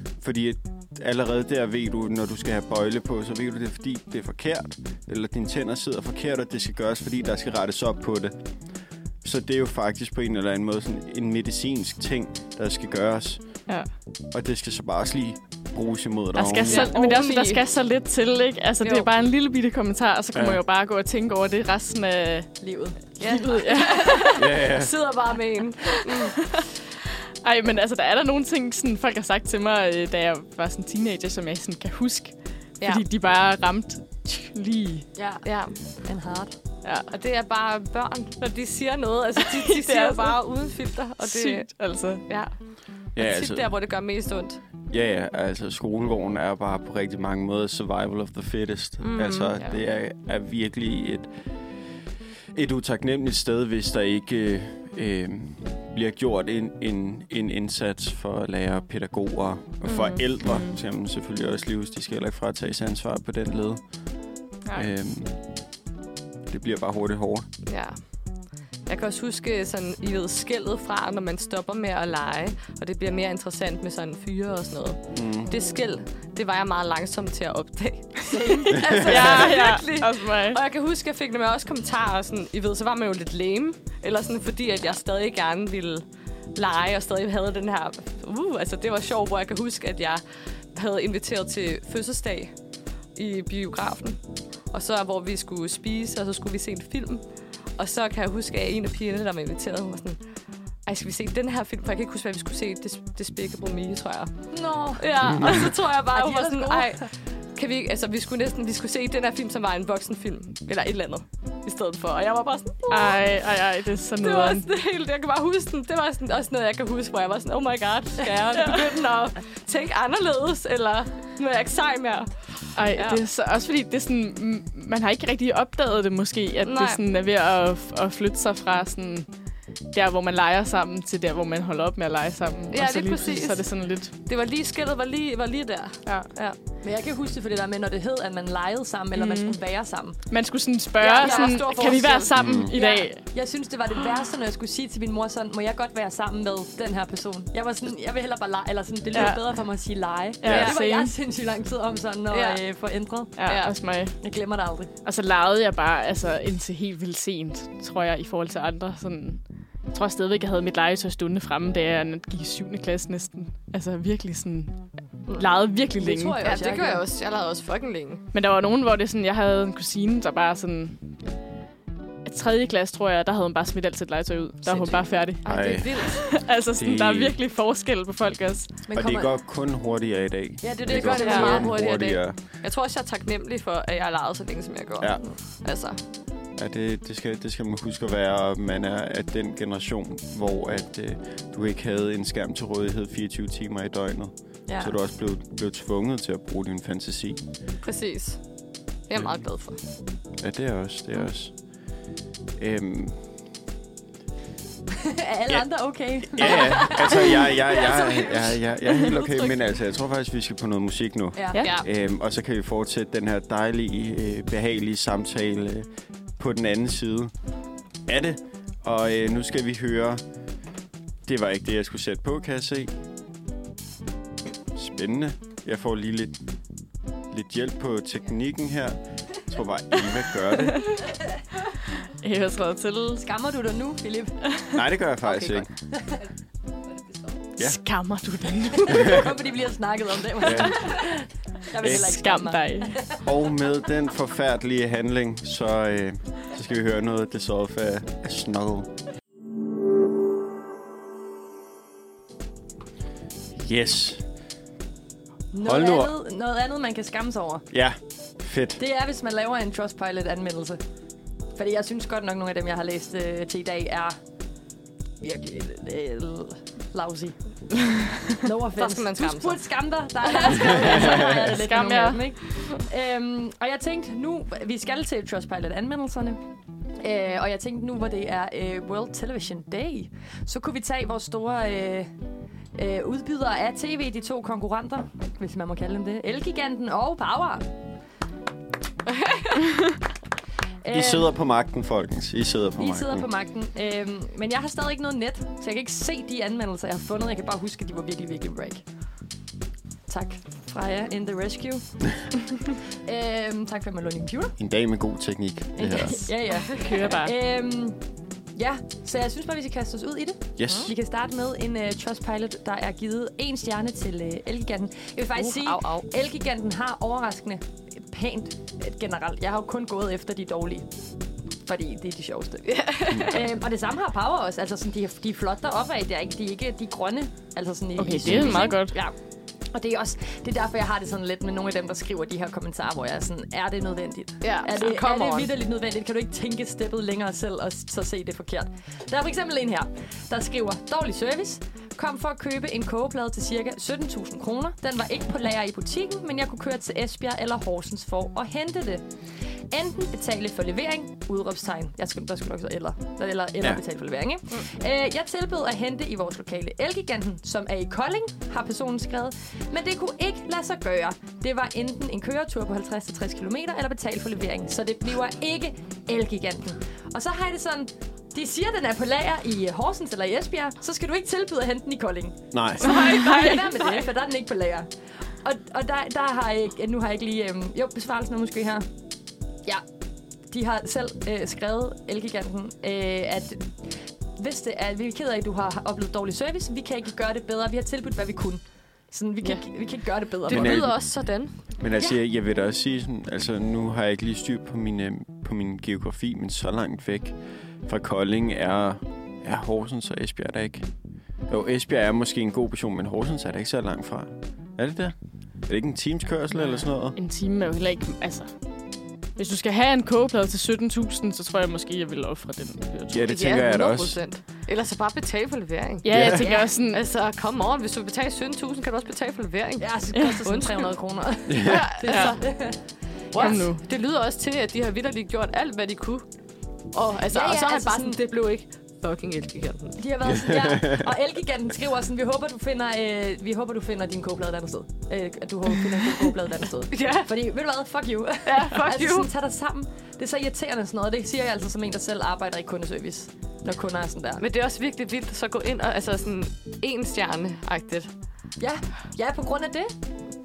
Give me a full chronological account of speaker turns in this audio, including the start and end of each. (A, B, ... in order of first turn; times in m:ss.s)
0:00.2-0:08.4 A
0:09.2-0:13.6 A
0:14.3-0:16.9 A
0:16.3-0:22.6 B
0:16.6-0:17.6 C
0:18.8-0:19.1 C
0:20.3-0:20.6 A
0:22.6-0:23.4 D
0:23.2-0:26.4 C
0:23.2-0:24.4 B
0:24.4-0:24.9 A
0:27.4-0:35.1 B
0:35.2-0:35.4 D
0:35.4-0:35.8 C
0:36.0-0:36.5 D
0:36.8-0:37.1 B
0:37.1-0:41.7 C
0:39.4-0:40.4 B
0:41.2-0:42.2 B
0:42.2-0:42.6 C
0:43.1-0:44.6 C
0:43.1-0:43.7 A
0:44.9-0:51.3 A
0:49.0-0:49.7 C
0:52.5-1:03.8 A
0:59.8-1:00.2 C
1:00.4-1:00.8 B
1:04.7-1:05.3 A
1:06.5-1:07.4 A
1:07.6-1:32.6 C
1:15.1-1:15.5 A
1:18.3-1:19.2 D
1:18.9-1:20.6 B
1:33.1-1:40.2 C
1:40.8-1:53.2 C
1:44.5-1:47.0 D
1:52.9-1:54.6 B
1:54.2-2:03.2 C
2:02.7-2:09.3 B
2:06.6-2:07.0 C
2:09.9-2:14.1 B
2:12.7-2:13.7 C
2:14.2-2:16.6 C
2:16.0-2:16.3 B
2:16.8-2:20.2 D
2:19.1-2:19.6 B
2:20.3-2:23.2 B
2:21.0-2:22.2 D
2:21.0-2:22.3 C
2:22.4-2:22.7 A
2:22.7-2:33.3 D
2:29.1-2:29.4 B
2:30.4-2:31.1 B
2:32.3-2:32.6 C
2:33.4-2:34.2 B
2:33.4-2:33.7 C
2:34.2-2:34.9 D
2:35.0-2:46.4 B
2:46.0-2:47.0 D
2:46.4-2:48.2 C
2:48.3-2:51.0 B
2:52.2-2:58.7 B
2:54.7-2:56.3 C
2:55.4-2:56.0 A
2:56.7-2:57.4 A
2:58.9-2:59.3 D
2:58.9-3:02.4 A
3:00.6-3:01.7 D
3:01.0-3:06.0 C
3:01.2-3:01.6 B
3:06.6-3:17.4 A
3:14.7-3:14.9 D
3:17.8-3:18.5 C
3:19.1-3:19.8 C
3:19.2-3:19.4 A
3:20.4-3:21.6 A
3:22.6-3:23.2 A
3:25.0-3:27.5 D
3:26.2-3:37.3 A
3:26.4-3:29.6 C
3:31.3-3:31.6 D
3:31.6-3:31.8 C
3:38.1-3:40.2 A
3:41.2-3:42.9 A
3:44.7-3:46.4 A
3:47.3-3:50.9 A
3:52.2-3:53.2 B
3:53.1-3:54.4 D
3:54.7-3:55.7 A
3:55.3-3:56.3 D
3:57.6-3:59.3 B
3:58.7-4:03.2 D
3:58.9-3:59.2 A
4:00.4-4:00.9 A
4:01.8-4:03.0 B
4:03.2-4:08.9 A
4:13.6-4:14.2 A
4:15.5-4:17.7 D
4:15.6-4:16.2 A
4:17.7-4:18.8 A
4:18.8-4:20.8 D
4:21.5-4:24.2 D
4:25.2-4:36.4 D
4:28.7-4:29.6 C
4:30.2-4:31.0 C
4:30.7-4:32.2 B
4:37.0-4:42.1 D
4:42.7-4:47.6 D
4:49.1-4:49.7 C
4:50.8-4:51.3 D
4:50.9-4:53.3 A
4:52.8-4:58.8 D
5:00.1-5:02.1 D
5:03.0-5:04.6 D
5:04.6-5:06.3 A
5:05.8-5:08.0 D
5:06.6-5:07.3 B
5:08.5-5:20.9 D
5:10.6-5:10.9 A
5:15.4-5:16.0 C
5:21.6-5:29.1 D
5:22.7-5:23.4 C
5:28.0-5:29.0 B
5:28.2-5:28.6 A
5:29.7-5:49.0 D
5:34.4-5:35.5 C
5:49.7-6:14.9 D
6:12.5-6:12.9 A
6:12.8-6:14.0 C
6:12.8-6:13.6 B
6:15.4-6:18.9 D
6:20.5-6:23.8 D
6:24.4-6:30.8 D
6:30.4-6:31.6 C
6:30.5-6:31.0 A
6:31.8-6:40.9 A
6:41.5-6:47.2 A
6:46.6-6:48.5 B
6:49.4-6:53.3 B
6:53.1-6:54.2 A
6:53.2-6:56.2 C
6:56.0-6:57.0 B
6:56.1-6:56.5 A
6:56.3-6:56.7 D
6:56.8-6:59.9 C
6:59.8-7:02.8 D
7:00.1-7:00.4 B
7:00.4-7:00.9 C
7:01.5-7:01.9 A
7:01.6-7:02.4 C
7:02.0-7:02.3 B
7:03.3-7:03.6 D
7:03.3-7:06.2 C
7:03.4-7:03.8 B
7:06.9-7:10.0 C
7:07.3-7:08.2 D
7:10.0-7:24.4 D
7:10.3-7:11.0 A
7:16.9-7:17.3 C
7:18.4-7:19.3 C
7:24.4-7:28.1 C
7:28.6-7:30.0 D